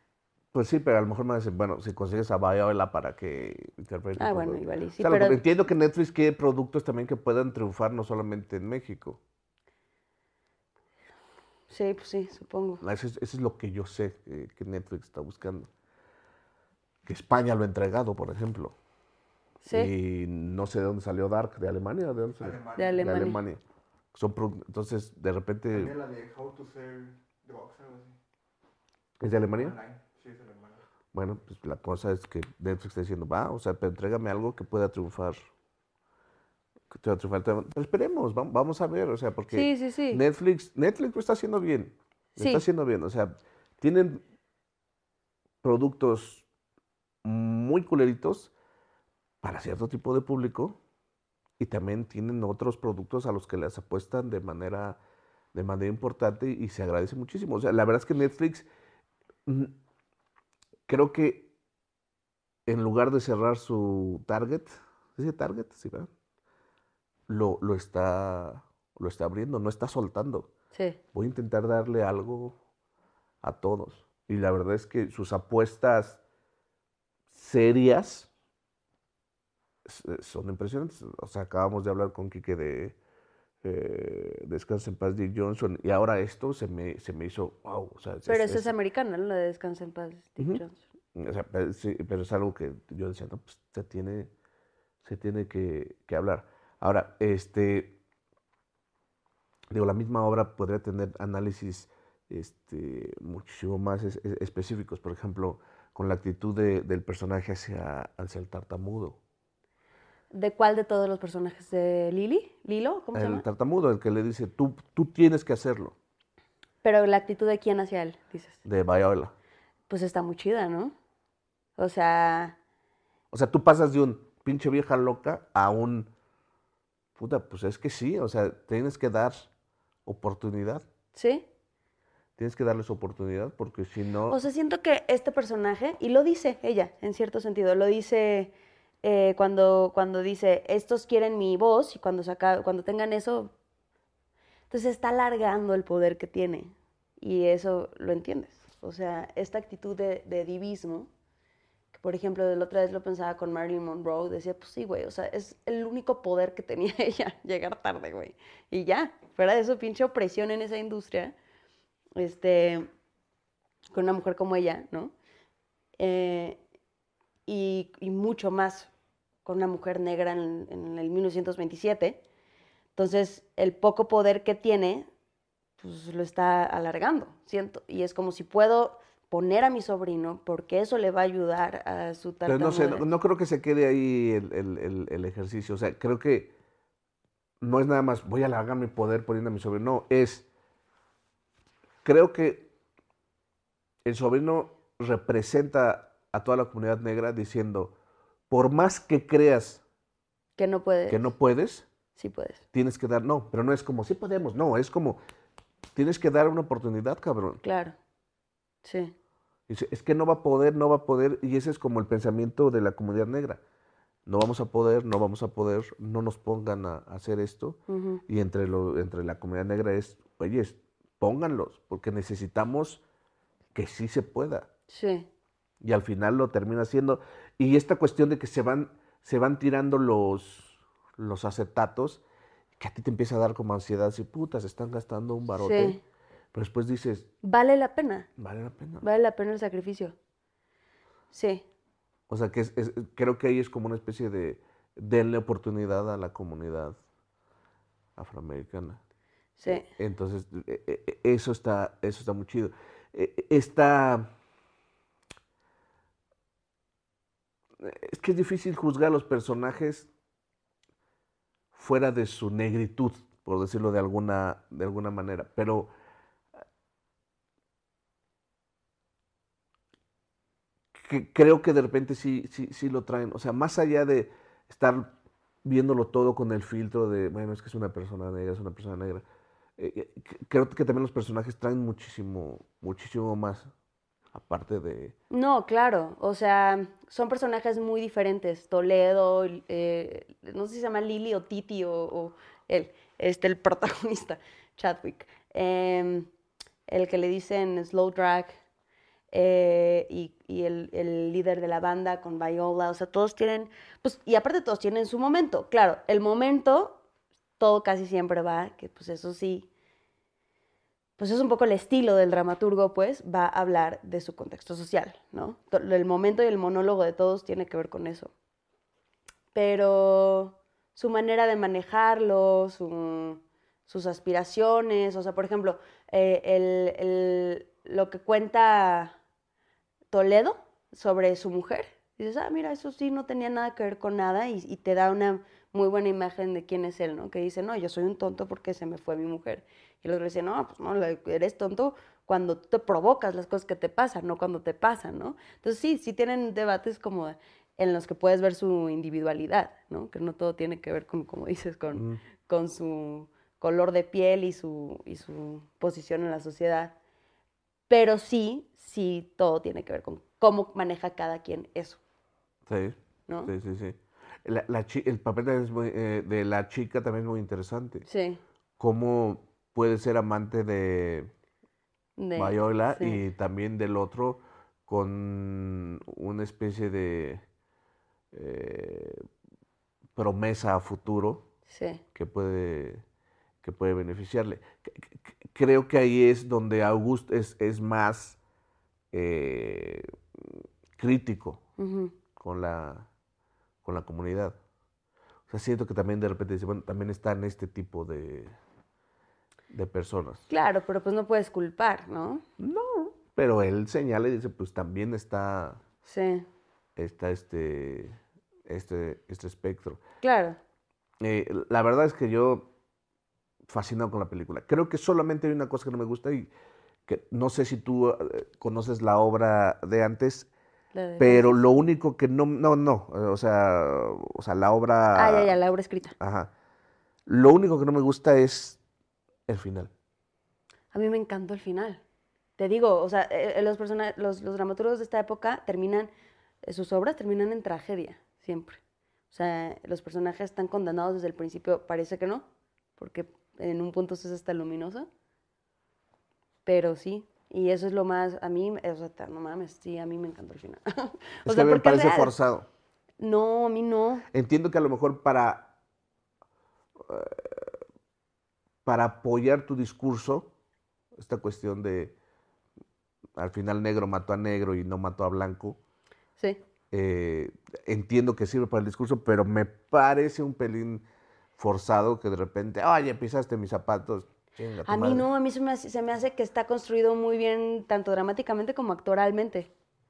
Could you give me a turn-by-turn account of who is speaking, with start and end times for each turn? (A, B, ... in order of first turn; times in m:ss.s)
0:00.5-0:09.2 A
0:04.2-0:05.4 B
0:11.7-0:12.8 B
0:12.8-0:15.7 A
0:17.0-0:18.7 A
0:19.6-0:19.9 B
0:19.7-0:23.6 A
0:22.4-0:23.4 C
0:22.8-0:23.4 B
0:24.1-0:25.9 A
0:25.7-0:28.2 C
0:29.2-0:29.8 A
0:29.5-0:30.8 C
0:31.1-0:35.4 A
0:36.9-0:44.2 A
0:39.5-0:40.2 B
0:42.4-0:42.6 B
0:45.6-0:46.4 A
0:47.2-0:48.5 A
0:49.4-0:50.8 A
0:51.6-0:55.0 A
0:55.5-0:58.7 A
0:59.4-0:59.7 A
1:00.9-1:01.5 A
1:02.6-1:06.1 A
1:07.3-1:10.5 A
1:10.7-1:11.0 B
1:11.1-1:12.6 A
1:13.4-1:16.2 A
1:17.3-1:18.3 A
1:19.8-1:23.0 A
1:23.6-1:28.7 A
1:28.2-1:30.8 B
1:31.1-1:34.3 A
1:35.0-1:38.0 A
1:39.7-1:49.2 A
1:50.3-1:53.4 B
1:53.1-1:55.9 A
1:56.8-1:58.6 B
1:58.6-1:59.3 A
1:59.9-2:00.9 B
2:01.8-2:02.6 B
2:03.3-2:06.1 A
2:07.2-2:09.5 A
2:10.0-2:10.8 A
2:11.1-2:11.4 B
2:12.4-2:14.4 A
2:14.3-2:23.5 B
2:24.7-2:31.1 B
2:31.9-2:41.3 B
2:42.2-2:42.9 B
2:43.9-2:45.1 B
2:46.0-2:46.6 B
2:47.5-2:48.9 B
2:49.4-2:52.2 B
2:53.0-2:55.1 B
2:55.8-3:03.0 B
3:02.5-3:06.5 A
3:07.6-3:10.4 A
3:12.0-3:12.7 A
3:14.0-3:17.9 A
3:18.5-3:19.8 A
3:20.6-3:21.2 B
3:21.1-3:21.8 A
3:22.2-3:22.6 B
3:22.7-3:25.2 A
3:25.9-3:27.6 A
3:27.6-3:27.9 B
3:28.8-3:29.1 B
3:29.7-3:33.6 A
3:34.2-3:43.0 A
3:37.9-3:38.2 B
3:43.7-3:44.7 A
3:44.9-3:45.3 B
3:45.8-3:52.2 A
3:52.8-3:56.0 A
3:55.6-3:56.0 B
3:56.5-3:57.3 A
3:57.4-3:58.3 B
3:58.4-3:59.0 A
3:59.0-4:00.1 B
4:01.3-4:01.6 B
4:02.3-4:07.0 A
4:08.2-4:09.0 A
4:09.6-4:09.9 B
4:09.7-4:14.3 A
4:17.8-4:20.1 A
4:21.7-4:25.9 A
4:30.9-4:35.1 A
4:35.6-4:39.2 A
4:39.8-4:43.7 A
4:44.3-4:45.1 A
4:45.3-4:56.3 B
4:56.9-4:58.6 B
4:59.3-5:07.0 B
5:07.6-5:09.7 B
5:11.2-5:18.3 B
5:19.5-5:29.2 B
5:30.1-5:56.9 B
5:51.9-5:52.2 A
5:57.9-6:02.0 B
6:02.7-6:08.0 A
6:08.1-6:08.4 B
6:08.8-6:11.3 A
6:12.2-6:13.2 B
6:12.4-6:17.4 A
6:18.3-6:19.2 A
6:20.2-6:21.4 A
6:21.7-6:22.0 B
6:22.1-6:23.0 A
6:23.6-6:28.4 A
6:29.1-6:31.6 A
6:31.8-6:32.1 B
6:32.4-6:33.1 A
6:33.8-6:34.6 A
6:35.5-6:38.5 A
6:39.7-6:40.4 A
6:40.5-6:42.4 B
6:42.6-6:45.8 A
6:46.0-6:46.5 B
6:47.0-6:48.2 A
6:48.7-6:50.0 A
6:50.2-6:50.6 B
6:51.2-6:52.7 A
6:53.7-6:56.5 A
6:57.1-7:00.5 A
7:00.9-7:01.6 B
7:01.2-7:05.6 A
7:05.1-7:06.1 B
7:06.2-7:06.5 A
7:07.2-7:08.8 A
7:09.5-7:09.9 A
7:10.9-7:12.0 B
7:12.6-7:16.1 B
7:16.6-7:18.8 B
7:19.3-7:22.4 B
7:23.0-7:25.1 B
7:26.6-7:32.3 B
7:31.4-7:32.7 A
7:33.2-7:34.2 B
7:34.3-7:35.7 A
7:37.0-7:37.8 A
7:38.8-7:40.5 A
7:41.2-7:42.2 A
7:43.4-7:45.8 A
7:46.9-7:51.0 A
7:51.6-7:55.3 A
7:54.8-7:59.7 B